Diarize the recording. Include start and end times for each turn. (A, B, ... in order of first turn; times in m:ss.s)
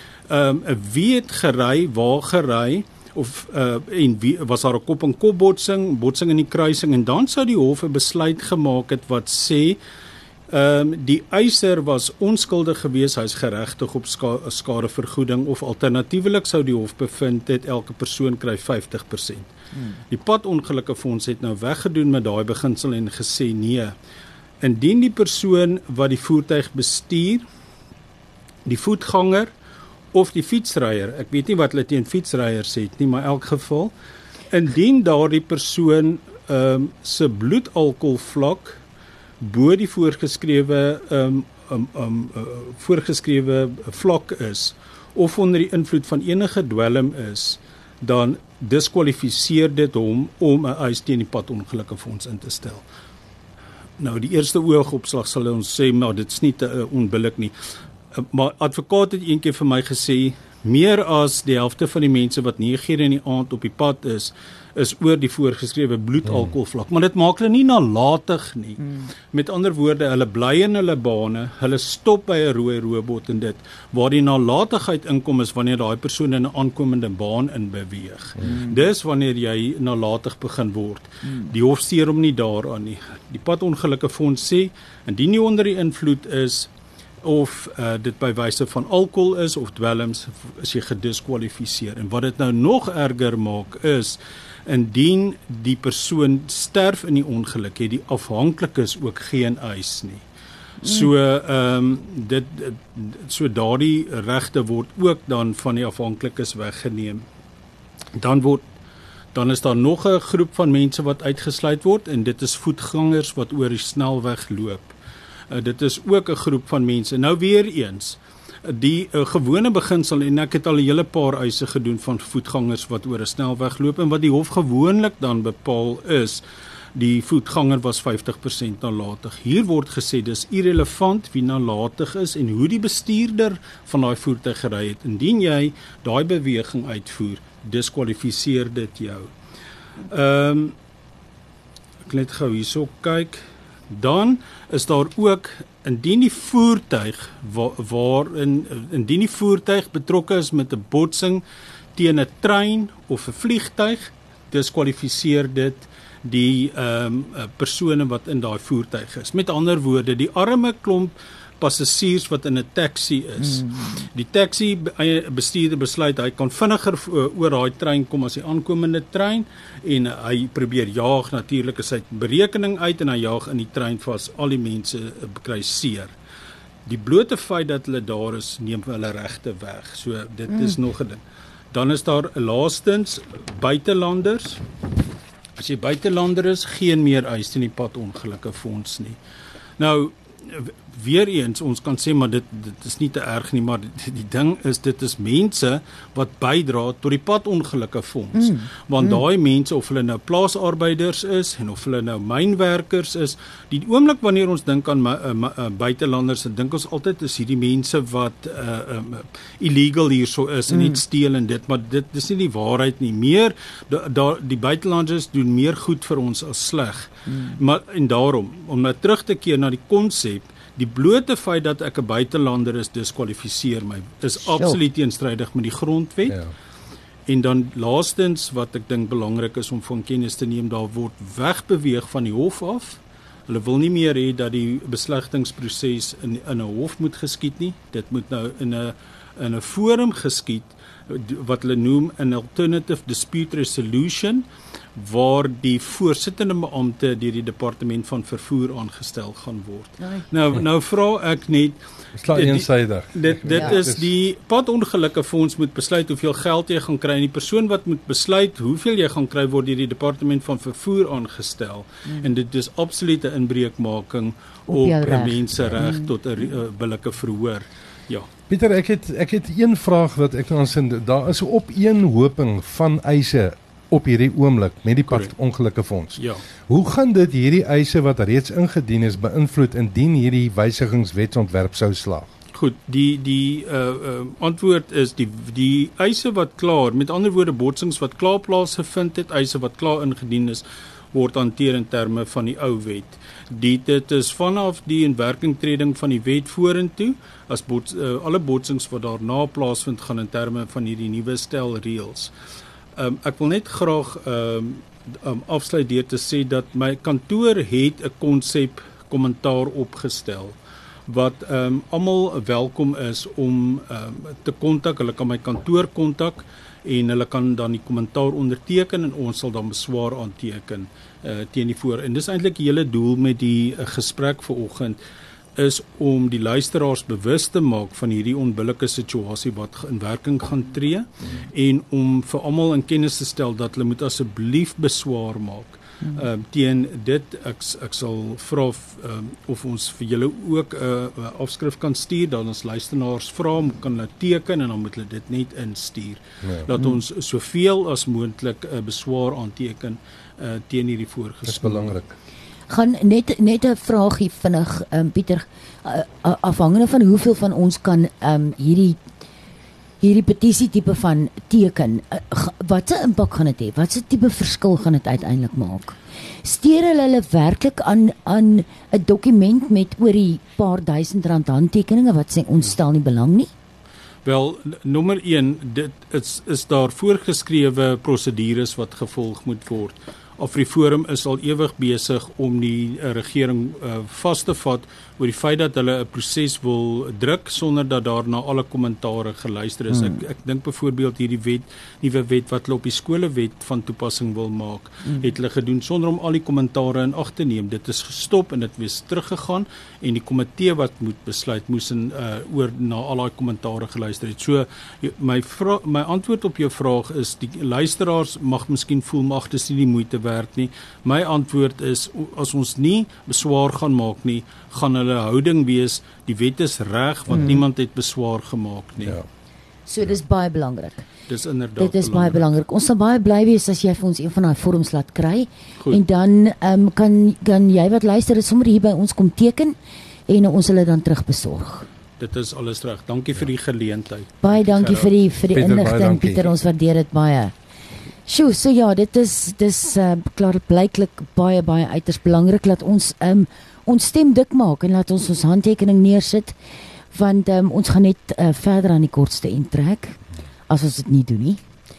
0:00.3-0:09.8 A
0:10.5-0:19.5 A
0:20.1-0:23.9 A
0:24.6-0:27.4 A
0:28.6-0:29.5 A
0:30.1-0:33.9 A
0:34.5-0:38.8 A
0:39.4-0:52.8 A
0:54.0-0:57.5 A
0:58.1-1:08.8 A
1:09.3-1:26.7 A
1:18.4-1:18.8 B
1:27.2-1:40.2 A
1:40.8-1:41.1 B
1:40.8-1:47.2 A
1:48.1-1:48.6 A
1:49.3-1:54.9 A
1:55.5-2:06.4 A
2:06.9-2:19.3 A
2:20.1-2:20.8 A
2:22.0-2:31.4 A
2:32.0-2:56.1 A
2:43.6-2:43.9 B
2:56.9-3:04.6 A
3:05.6-3:09.2 A
3:09.8-3:46.4 A
3:18.3-3:19.2 B
3:30.7-3:31.0 B
3:37.3-3:37.6 B
3:44.4-3:44.8 B
3:47.3-4:28.3 A
4:10.0-4:10.2 B
4:12.1-4:14.1 C
4:13.5-4:13.8 B
4:24.7-4:26.1 B
4:28.5-4:42.3 C
4:35.1-4:35.3 A
4:36.1-4:36.4 A
4:42.5-5:02.3 A
5:03.0-5:25.0 A
5:25.6-5:52.0 A
5:46.4-5:46.7 C
5:51.5-5:52.2 C
5:52.7-5:59.0 B
6:00.0-6:13.5 B
6:14.2-6:59.2 A
6:29.9-6:30.2 B
6:57.3-6:57.6 B
6:59.9-7:01.0 B
7:01.3-7:02.4 A
7:01.8-7:09.8 B
7:10.3-7:11.9 B
7:12.2-7:15.1 A
7:14.4-7:17.5 B
7:15.5-7:16.5 C
7:18.2-7:26.6 B
7:27.1-7:31.6 B